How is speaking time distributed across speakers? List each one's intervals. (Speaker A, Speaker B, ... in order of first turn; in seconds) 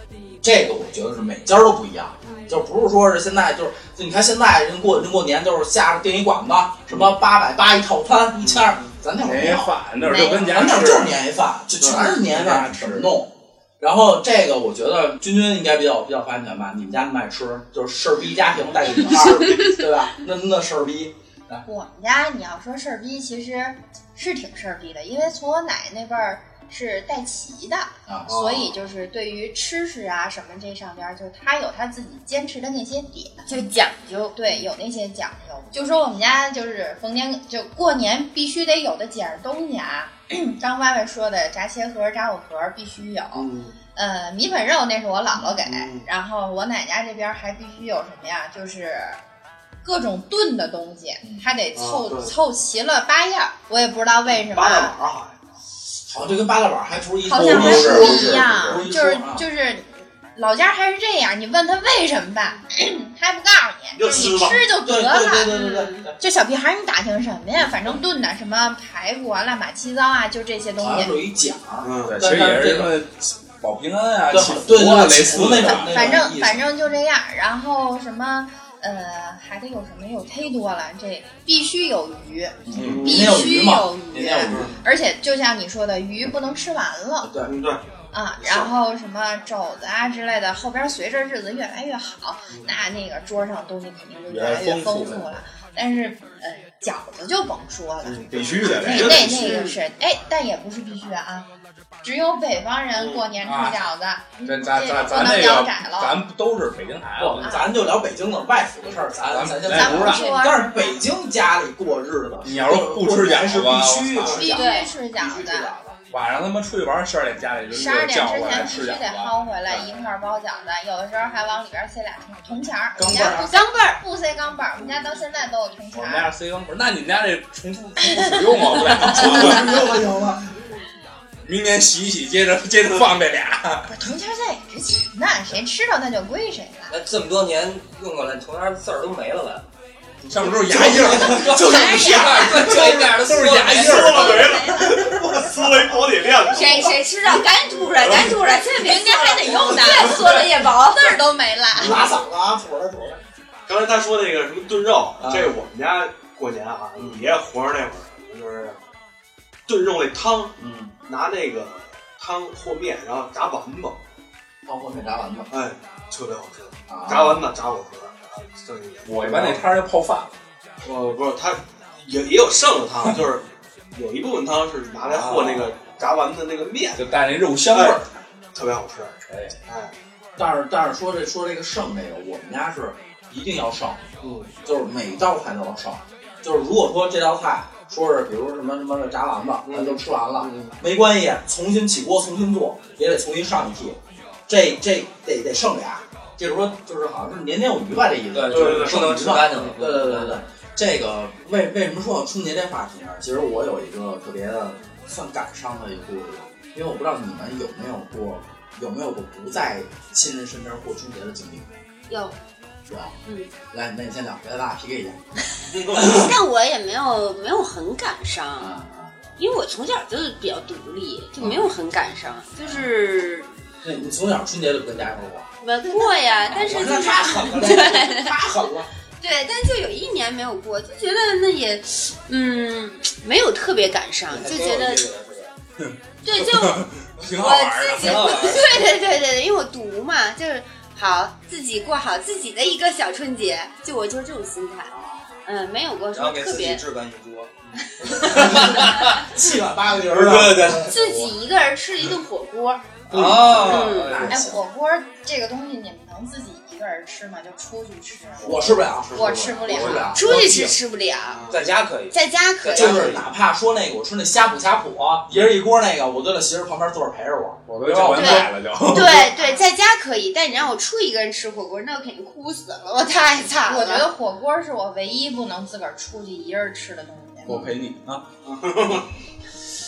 Speaker A: 0.4-21.6, 28.1-28.4, 56.1-59.5, 64.6-66.2, 70.8-73.0, 74.3-76.7, 82.7-84.7, 87.2-87.5, 107.2-116.0, 123.0-123.4, 129.0-130.4, 151.8-153.2, 155.2-155.6, 157.0-157.3, 160.6-160.9, 164.7-165.5, 166.9-167.4, 180.4-184.1, 184.6-211.7, 212.9-213.2, 213.7-215.3, 215.9-216.3, 218.6-219.1, 221.4-221.7, 222.6-222.9, 223.8-225.5, 226.4-228.9, 248.3-250.9, 253.1-254.6, 258.4-260.5, 262.7-268.5, 277.5-277.7
Speaker B: 2.2-2.6, 8.4-8.9, 11.8-12.1, 28.3-28.7, 43.4-43.7, 45.4-46.1, 51.8-52.3, 54.3-55.5, 64.0-64.7, 71.8-72.2, 82.8-83.3, 84.5-84.8, 87.4-87.8, 88.4-88.7, 98.0-99.7, 103.0-103.3, 140.6-147.0, 151.8-152.1, 153.7-158.8, 159.7-164.0, 165.5-169.6, 170.8-177.2, 177.7-178.0, 178.5-179.9, 184.2-184.5, 189.7-190.8, 198.5-199.1, 250.2-250.8, 259.0-259.9, 261.3-261.6, 278.4-279.1
Speaker C: 9.2-11.2, 12.1-13.1, 57.3-58.9, 72.1-76.2, 82.7-83.2, 94.3-95.4, 98.3-99.4, 103.4-103.9, 104.4-107.5, 109.3-110.2, 112.5-114.5, 116.1-119.9, 123.0-123.4, 125.9-129.9, 131.4-133.9, 140.2-145.2, 169.1-170.3, 175.1-175.7, 177.0-178.1, 179.3-179.6, 235.8-238.7, 251.0-251.3, 259.6-260.7, 267.7-269.3, 277.4-278.2
Speaker D: 10.1-10.4, 21.7-33.7, 34.4-49.2, 49.8-54.9, 57.3-65.5, 66.2-71.2, 75.6-87.3, 88.1-101.5, 102.0-106.2, 107.4-107.8, 109.7-111.0, 114.3-115.7, 117.7-126.3, 133.9-137.0, 141.5-142.7, 148.6-152.1, 254.3-260.3, 269.1-269.6, 273.7-277.6
Speaker E: 33.5-34.4, 65.5-66.1, 83.2-84.4, 99.4-99.8, 114.5-114.9, 123.2-124.0, 146.5-151.3, 212.1-212.4, 213.3-213.5, 215.9-218.8, 219.4-223.5, 225.6-228.3, 229.2-235.1, 236.2-246.8, 248.0-249.3, 250.8-252.8, 253.6-254.3, 260.1-261.4, 262.1-263.2, 268.1-274.1
Speaker F: 136.9-139.6, 141.1-144.4, 198.3-200.4, 234.3-235.5, 238.0-238.9, 246.1-247.5, 248.2-249.2, 250.2-251.0, 253.1-254.3, 261.5-263.2